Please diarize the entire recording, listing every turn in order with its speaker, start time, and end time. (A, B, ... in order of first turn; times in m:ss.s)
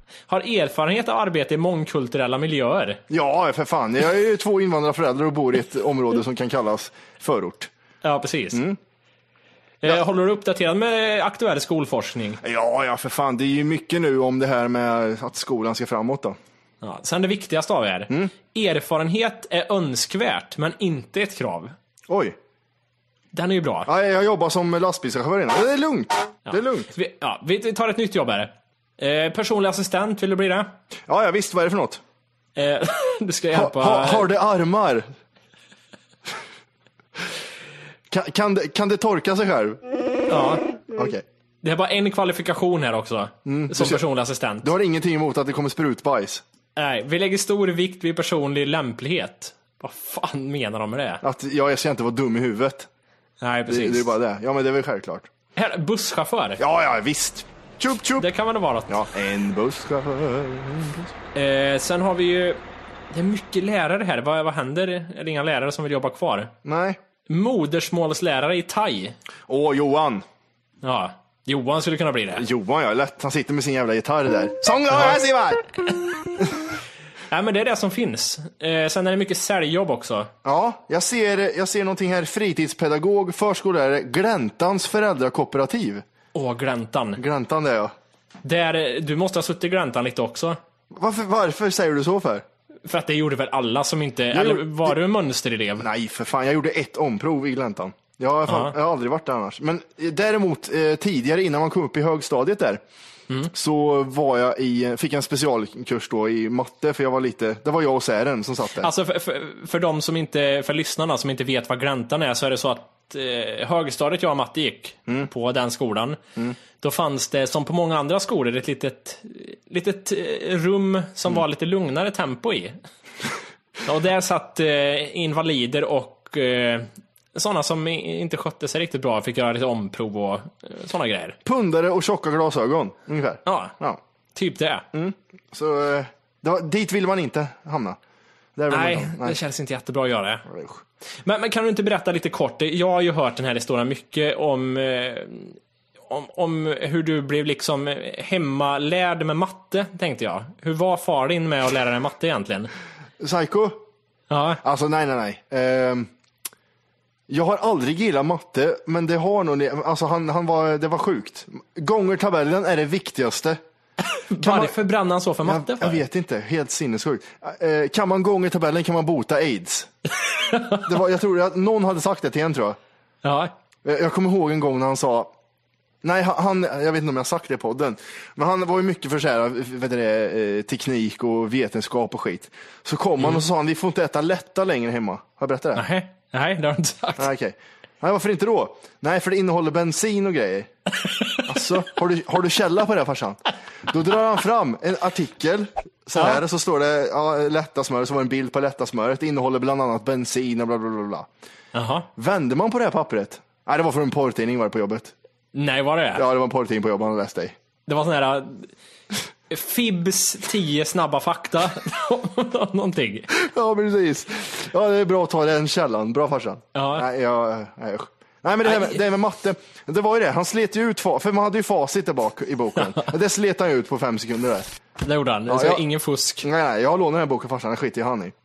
0:00.3-0:03.0 A
0:03.1-0:07.7 B
0:08.0-0:08.6 A
0:09.8-0:12.4 A
0:12.4-0:16.4 B
0:16.8-0:21.7 A
0:22.1-0:22.4 B
0:23.3-0:23.9 A
0:23.9-0:26.9 B
0:26.5-0:30.7 A
0:31.1-0:32.0 B
0:32.6-0:34.3 A
0:33.5-0:35.1 B
0:38.1-0:39.8 B
0:40.3-0:40.6 A
0:40.9-0:41.2 B
0:41.6-0:44.7 A
0:43.4-0:44.0 B
0:44.6-0:46.4 B
0:46.8-0:51.2 A
0:51.2-0:52.9 B
0:53.4-0:54.1 A
0:53.7-0:55.3 B
0:55.6-0:56.6 A
0:56.6-0:58.3 B
0:58.2-0:58.9 A
0:58.9-1:01.1 B
1:01.3-1:06.5 A
1:06.6-1:07.0 B
1:07.3-1:09.2 A
1:09.5-1:10.2 B
1:10.8-1:12.4 A
1:12.4-1:15.6 B
1:14.9-1:15.2 A
1:17.3-1:20.3 A
1:20.4-1:26.0 B
1:26.3-1:27.2 A
1:27.2-1:27.9 B
1:28.4-1:30.6 A
1:30.9-1:32.4 B
1:32.8-1:35.8 A
1:34.3-1:35.0 B
1:35.8-1:42.8 B
1:38.5-1:38.7 A
1:43.5-1:48.9 B
1:48.8-1:56.2 A
1:56.8-2:02.8 A
2:03.8-2:11.4 A
2:11.4-2:14.0 B
2:13.4-2:13.7 A
2:14.3-2:14.8 A
2:14.9-2:18.0 B
2:18.6-2:19.4 B
2:18.7-2:20.5 A
2:20.5-2:20.8 B
2:21.2-2:25.6 A
2:26.1-2:32.7 A
2:33.2-2:33.8 B
2:34.3-2:34.6 A
2:34.6-2:36.1 B
2:37.3-2:43.6 B
2:44.1-2:46.0 A
2:44.4-2:44.7 B
2:45.4-2:49.9 B
2:50.4-2:50.9 A
2:50.8-2:52.8 B
2:53.2-2:53.5 A
2:53.8-2:55.3 B
2:56.0-3:05.8 B
3:05.8-3:07.3 A
3:07.2-3:10.7 B
3:11.4-3:21.3 B
3:21.7-3:22.1 A
3:22.2-3:25.1 B
3:25.5-3:26.2 A
3:26.2-3:27.5 B
3:27.9-3:28.7 A
3:29.5-3:33.3 A
3:33.3-3:44.7 B
3:36.7-3:37.0 A
3:38.6-3:39.0 A
3:45.0-3:46.5 A
3:45.5-3:45.8 B
3:46.4-3:48.3 B